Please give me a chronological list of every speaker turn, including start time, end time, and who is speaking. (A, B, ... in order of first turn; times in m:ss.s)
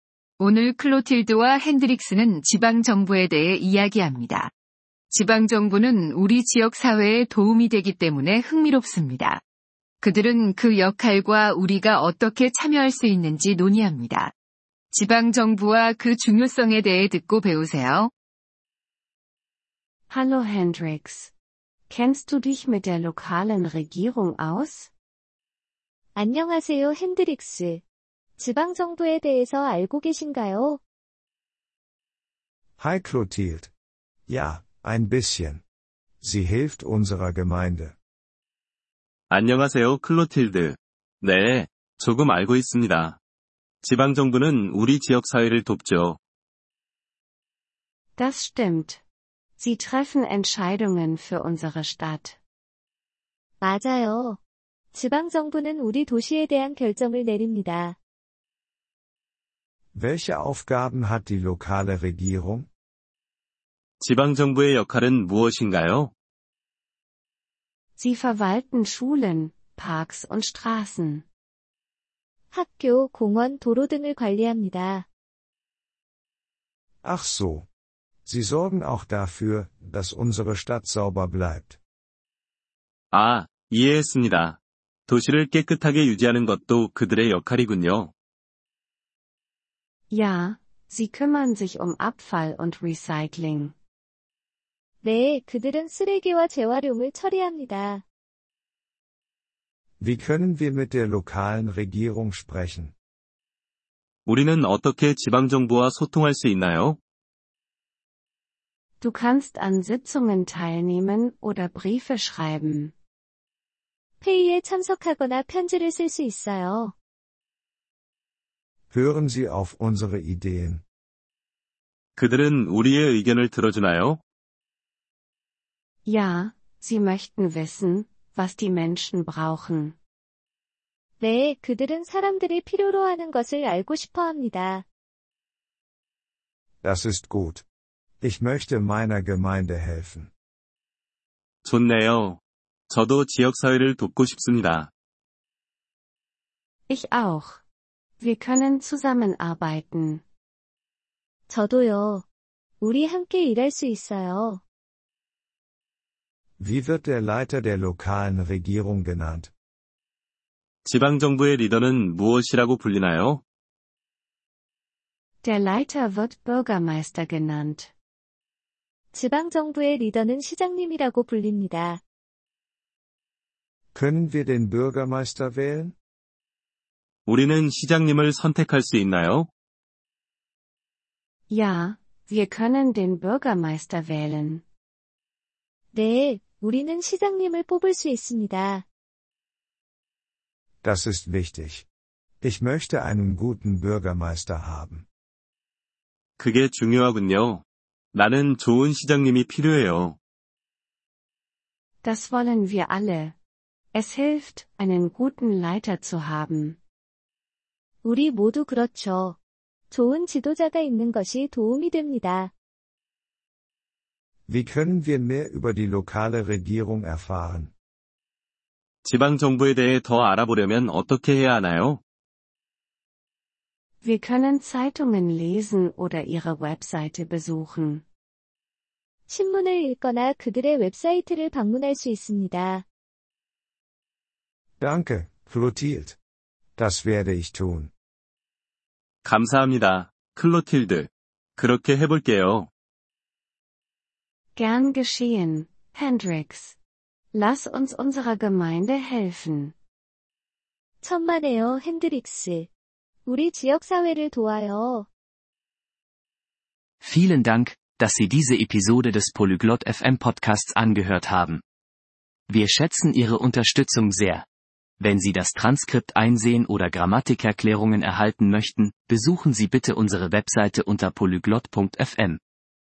0:00.4-0:04.5 A
0:05.1-0:09.4 A
0:10.0-0:14.3 A
0:14.9-0:18.1 A
0:20.1-0:21.3 B
0:21.9-0:24.9 B
0:26.1-0:27.8 C
0:28.4-0:30.8 C
0:32.8-0:33.7 D
0:34.3-0:35.6 D
0:36.2-0:37.9 D
0:39.3-0:43.2 E
0:43.8-0:46.2 E
0:48.2-0:49.0 B
0:49.6-0:52.4 B
0:53.6-0:54.4 C
0:54.9-0:58.0 C
0:59.9-1:02.7 D
1:04.0-1:06.1 E
1:08.0-1:11.2 B
1:12.5-1:15.0 C
1:17.0-1:17.7 D
1:18.2-1:21.8 D
1:23.1-1:28.1 E
1:30.1-1:33.7 B
1:35.0-1:38.0 C
1:40.0-1:42.9 D
1:44.2-1:47.0 E
1:49.0-1:52.9 B
1:54.2-1:56.9 C
1:58.9-2:00.8 D
2:02.2-2:04.2 E
2:06.0-2:09.9 B
2:11.2-2:14.8 C
2:16.8-2:17.6 D
2:18.2-2:20.3 D
2:21.6-2:24.9 E
2:26.9-2:27.6 B
2:28.2-2:30.2 B
2:31.5-2:32.2 C
2:32.8-2:34.6 C
2:36.6-2:39.5 D
2:40.8-2:43.4 E
2:45.4-2:47.9 B
2:49.1-2:52.0 C
2:53.9-2:55.9 D
2:57.2-2:59.5 E
3:01.5-3:04.6 B
3:05.9-3:08.8 C
3:10.8-3:11.8 D
3:12.4-3:15.0 D
3:16.4-3:20.2 E
3:22.0-3:23.3 B
3:23.9-3:26.8 B
3:28.0-3:29.4 C
3:29.9-3:32.5 C
3:34.5-3:37.7 D
3:39.0-3:42.0 E
3:44.0-3:48.0 B
3:49.3-3:52.8 C
3:54.8-3:56.2 D
3:56.8-3:57.9 D
3:59.2-4:02.7 E
4:04.6-4:06.8 B
4:07.3-4:09.7 B
4:11.0-4:12.7 C
4:13.2-4:15.1 C
4:17.0-4:21.6 F
4:22.5-4:24.4 F
4:25.0-4:32.4 F